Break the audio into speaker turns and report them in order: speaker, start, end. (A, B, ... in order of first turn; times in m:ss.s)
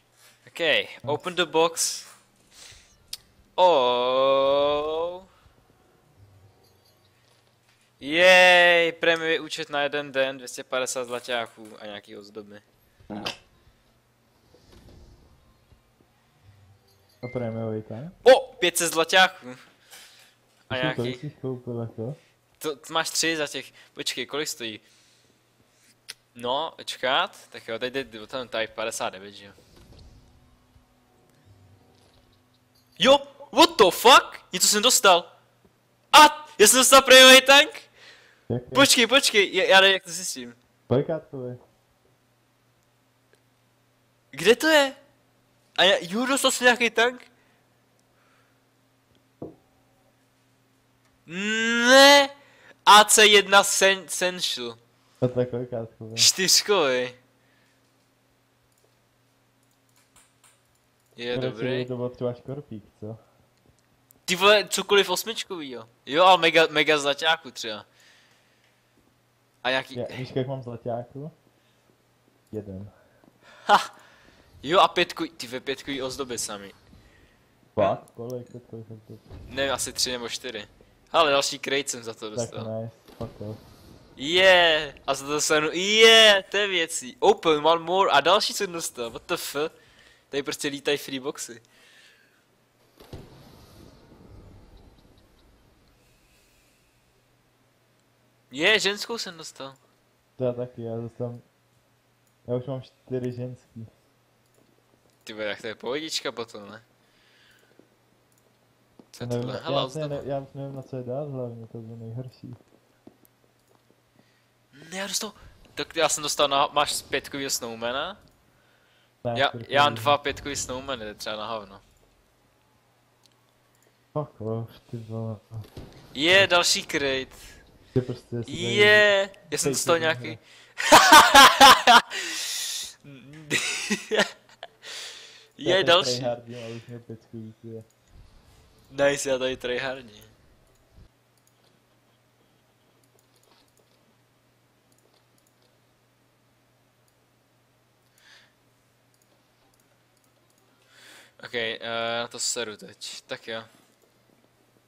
0:00.4-0:02.1 A
0:03.6-0:05.2 A
0:08.0-0:12.6 A
0:17.2-0:18.2 B
0:18.2-0:19.6 A
0:20.7-0:21.2 A
0:20.7-0:22.2 B
0:22.6-0:24.8 A
0:26.3-0:29.5 A
0:33.0-0:35.3 A
0:36.1-0:37.9 A
0:38.5-0:38.9 B
0:38.7-0:40.6 A
0:40.9-0:41.6 B
0:44.3-0:45.0 A
0:45.8-0:47.3 A
0:51.2-0:52.3 A
0:52.8-0:54.8 A
0:55.2-0:56.3 B
0:56.2-0:57.2 A
1:01.2-1:01.9 A
1:01.3-1:03.2 B
1:04.2-1:07.8 A
1:09.6-1:10.2 A
1:09.9-1:11.3 B
1:12.5-1:12.9 B
1:14.6-1:16.8 A
1:17.7-1:19.2 B
1:17.8-1:18.0 A
1:19.5-1:22.7 A
1:22.3-1:23.6 B
1:24.2-1:29.7 A
1:30.3-1:31.6 A
1:38.5-1:39.8 A
1:40.4-1:41.5 B
1:42.4-1:43.9 B
1:45.2-1:46.8 A
1:49.1-1:50.2 A
1:49.2-1:52.6 B
1:54.7-1:58.2 A
1:59.2-2:00.1 B
1:59.3-2:01.8 A
2:04.1-2:05.6 B
2:06.1-2:07.4 A
2:07.9-2:10.4 B
2:08.4-2:12.4 A
2:13.0-2:14.3 A
2:15.6-2:16.3 A
2:15.6-2:17.9 B
2:18.9-2:20.3 A
2:31.4-2:33.7 A